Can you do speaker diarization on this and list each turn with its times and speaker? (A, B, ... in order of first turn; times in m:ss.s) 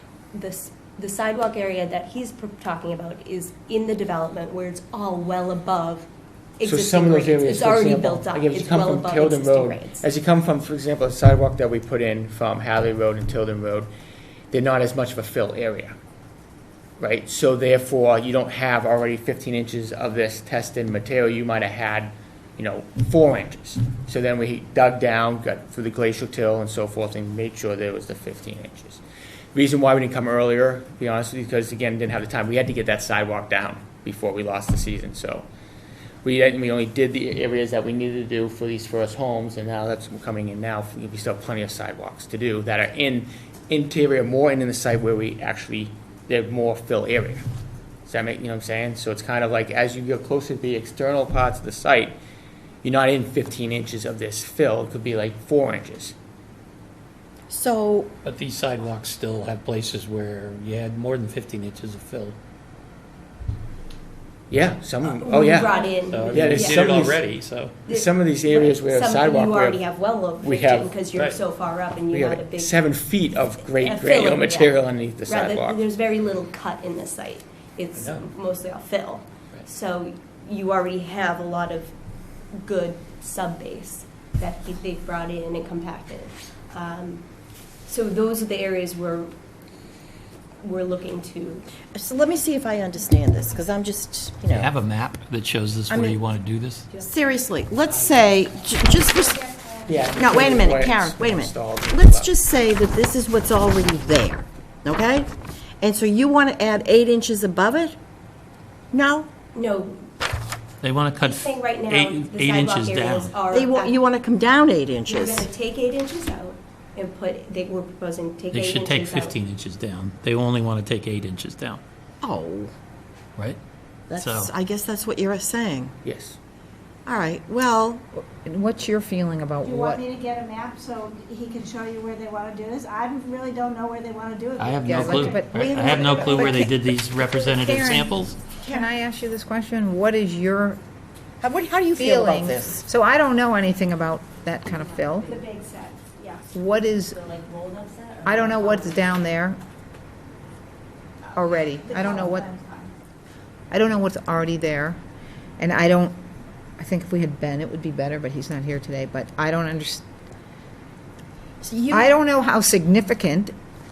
0:00.3-0:06.1 A
0:06.6-0:10.0 A
0:06.6-0:13.9 B
0:14.5-0:16.0 B
0:17.0-0:29.0 B
0:29.5-0:35.4 B
0:36.2-0:47.4 B
0:48.0-0:52.2 B
0:52.8-0:56.2 B
0:57.5-0:58.1 C
0:58.2-1:02.4 D
1:04.5-1:07.3 B
1:05.0-1:07.1 A
1:06.0-1:07.8 D
1:07.9-1:12.8 A
1:07.9-1:09.8 B
1:10.4-1:11.0 B
1:11.1-1:11.4 D
1:12.1-1:15.8 B
1:13.7-1:21.9 A
1:17.9-1:18.2 D
1:22.5-1:27.3 A
1:27.8-1:29.3 A
1:30.6-1:31.7 A
1:31.9-1:34.7 C
1:34.5-1:36.9 D
1:35.9-1:36.2 C
1:36.9-1:39.4 C
1:37.9-1:38.4 B
1:39.0-1:39.9 E
1:39.9-1:42.3 B
1:40.2-1:45.3 C
1:45.8-1:48.0 C
1:48.9-1:49.3 C
1:49.5-1:50.0 A
1:50.8-1:53.4 D
1:51.2-1:54.0 A
1:53.5-1:55.5 C
1:55.0-1:59.4 A
1:58.5-2:01.8 D
2:02.2-2:02.7 C
2:04.1-2:05.9 C
2:04.1-2:04.5 D
2:06.0-2:06.4 B
2:07.0-2:08.0 C
2:08.2-2:10.0 F
2:09.6-2:15.4 E
2:14.6-2:18.4 D
2:14.8-2:16.7 F
2:15.5-2:16.6 C
2:17.4-2:20.8 F
2:21.4-2:22.8 C
2:22.0-2:25.3 F
2:25.3-2:26.5 E
2:26.5-2:27.2 F
2:27.1-2:28.8 A
2:28.2-2:29.6 F
2:31.2-2:32.9 E
2:31.3-2:32.5 F
2:33.7-2:35.0 F
2:35.6-2:36.2 F
2:36.8-2:40.0 F
2:41.6-2:42.1 C
2:41.9-2:43.5 F